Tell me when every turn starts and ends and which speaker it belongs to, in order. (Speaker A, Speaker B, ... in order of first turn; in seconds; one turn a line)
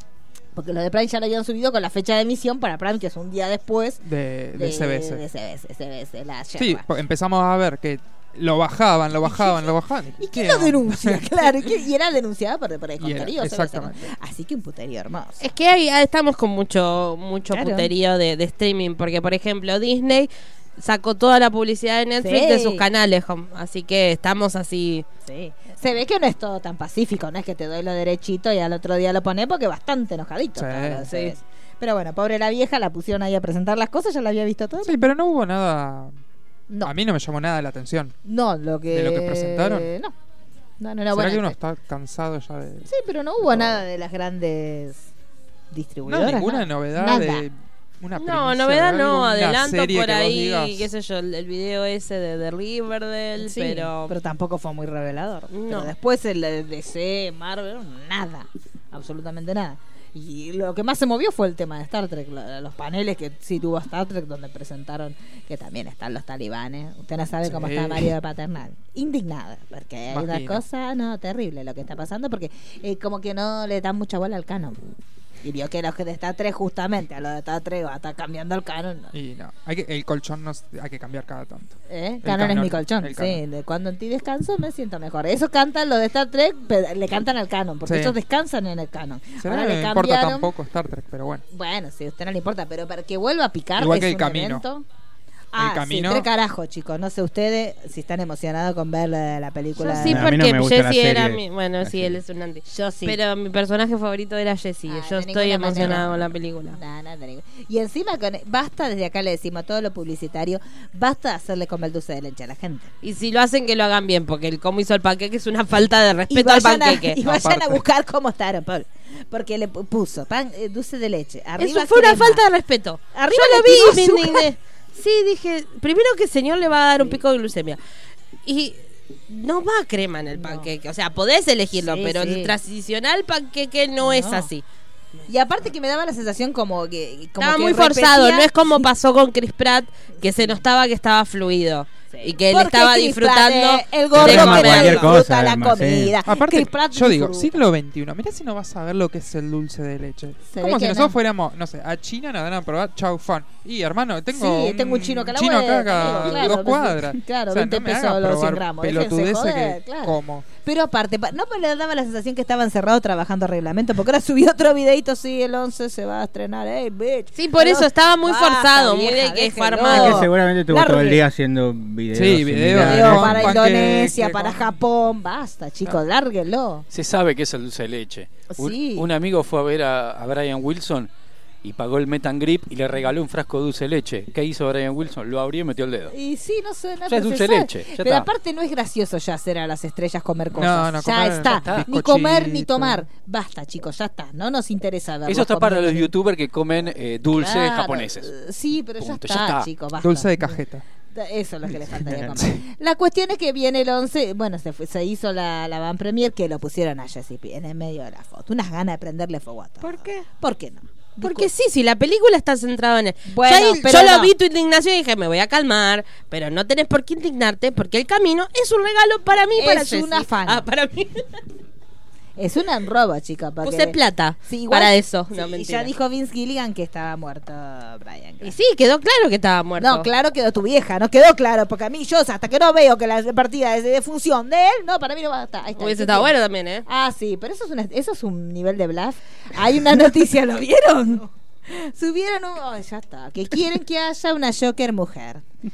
Speaker A: 0.5-4.0
Speaker B: 4.0-5.2
Speaker A: 4.5-6.9
Speaker B: 6.6-11.7
Speaker A: 9.2-15.4
Speaker B: 13.0-14.1
Speaker C: 15.4-25.0
Speaker A: 17.5-17.9
Speaker A: 22.2-22.8
Speaker A: 25.2-35.0
Speaker B: 30.6-31.1
Speaker C: 31.1-31.3
Speaker B: 34.8-36.1
Speaker B: 36.8-38.1
Speaker A: 38.2-40.1
Speaker B: 38.9-39.9
Speaker A: 40.8-41.5
Speaker B: 41.1-42.9
Speaker A: 42.9-45.1
Speaker B: 43.5-43.8
Speaker A: 45.7-47.5
Speaker B: 46.0-50.9
Speaker C: 48.1-54.1
Speaker A: 53.4-74.8
Speaker C: 55.5-55.9
Speaker B: 67.4-68.1
Speaker B: 70.1-70.6
Speaker A: 75.4-79.1
Speaker B: 79.1-83.4
Speaker A: 81.9-90.5
Speaker B: 87.8-88.2
Speaker B: 89.4-91.4
Speaker A: 91.5-94.8
Speaker B: 93.8-94.6
Speaker A: 95.5-100.3
Speaker B: 95.5-96.3
Speaker C: 99.8-106.8
Speaker D: 100.0-102.2
Speaker A: 102.7-103.2
Speaker A: 104.9-106.2
Speaker B: 105.8-106.0
Speaker A: 106.7-112.9
Speaker C: 113.0-117.2
Speaker A: 116.3-122.4
Speaker B: 117.2-117.8
Speaker C: 121.6-127.8
Speaker A: 123.1-124.5
Speaker C: 128.4-134.6
Speaker A: 130.3-130.7
Speaker A: 131.7-132.5
Speaker A: 134.0-134.5
Speaker A: 135.3-138.9
Speaker C: 137.4-145.2
Speaker A: 142.1-147.6
Speaker D: 144.2-146.2
Speaker B: 146.3-160.5
Speaker A: 150.5-151.2
Speaker A: 154.3-171.2
Speaker C: 156.0-156.5
Speaker C: 167.3-170.3
Speaker D: 169.8-173.7
Speaker B: 172.1-174.7
Speaker A: 172.8-176.9
Speaker E: 176.9-181.1
Speaker A: 178.5-179.1
Speaker E: 181.6-186.1
Speaker A: 186.1-196.1
Speaker E: 187.1-188.3
Speaker B: 190.5-193.0
Speaker E: 191.4-191.9
Speaker E: 195.2-198.3
Speaker A: 197.3-200.6
Speaker E: 199.0-199.7
Speaker B: 200.0-200.8
Speaker A: 201.1-211.5
Speaker D: 201.9-202.4
Speaker B: 202.4-202.6
Speaker C: 209.8-210.2
Speaker C: 211.2-221.4
Speaker A: 213.2-214.3
Speaker A: 219.6-220.6
Speaker A: 222.4-228.5
Speaker C: 223.6-225.9
Speaker C: 228.4-230.1
Speaker A: 229.8-236.3
Speaker C: 235.8-236.8
Speaker A: 236.8-245.4